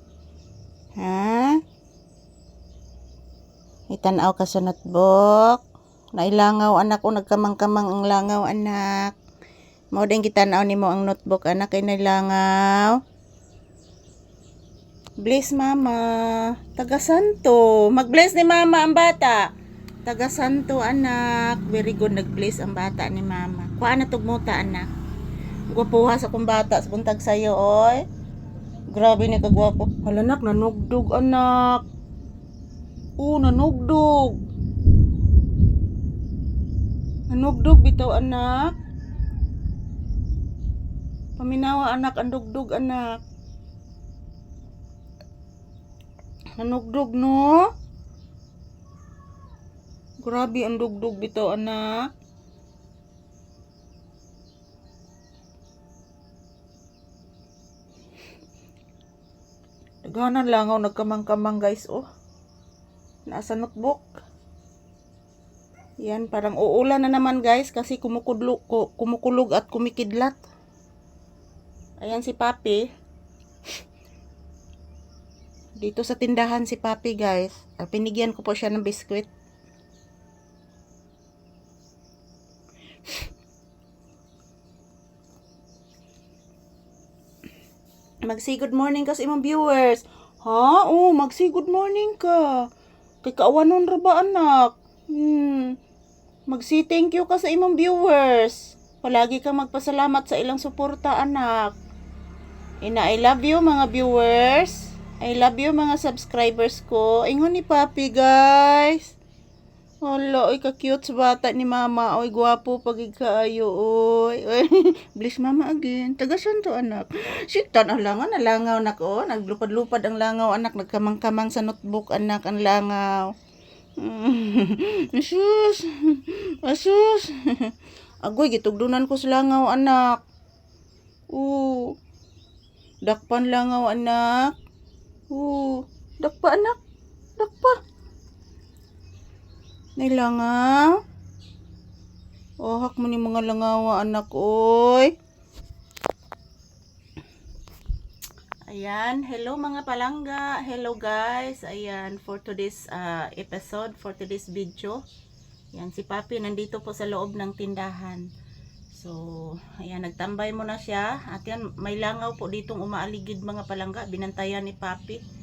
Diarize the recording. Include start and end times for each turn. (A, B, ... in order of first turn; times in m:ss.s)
0:01.0-0:01.6 A
0:03.9-0:05.6 A
0:06.2-0:09.2 A
0:09.9-0:13.0 A
0:15.2-0:19.5 A
0:20.0-0:24.9 A
0:25.7-0:28.0 A
0:28.9-0:31.8 A
0:33.2-0:34.4 A
0:37.3-0:38.7 A
0:41.4-0:43.2 A
0:46.6-0:47.6 A
0:50.2-0:52.0 A
1:00.0-1:02.1 A
1:03.3-1:04.2 A
1:06.0-1:10.4 A
1:12.0-1:12.8 A
1:15.8-1:19.3 A
1:28.2-1:32.7 A
1:33.2-1:35.8 A
1:36.5-1:41.8 A
1:42.8-1:49.1 A
1:50.0-2:03.3 A
2:04.0-2:07.7 A
2:08.2-2:10.2 A
2:11.3-2:12.0 A
2:13.1-2:14.6 A
2:15.3-2:16.8 A
2:17.4-2:17.8 A
2:20.0-2:21.0 A
2:22.6-2:25.1 A
2:28.7-2:35.0 A
2:35.7-2:38.3 A
2:38.9-2:45.2 A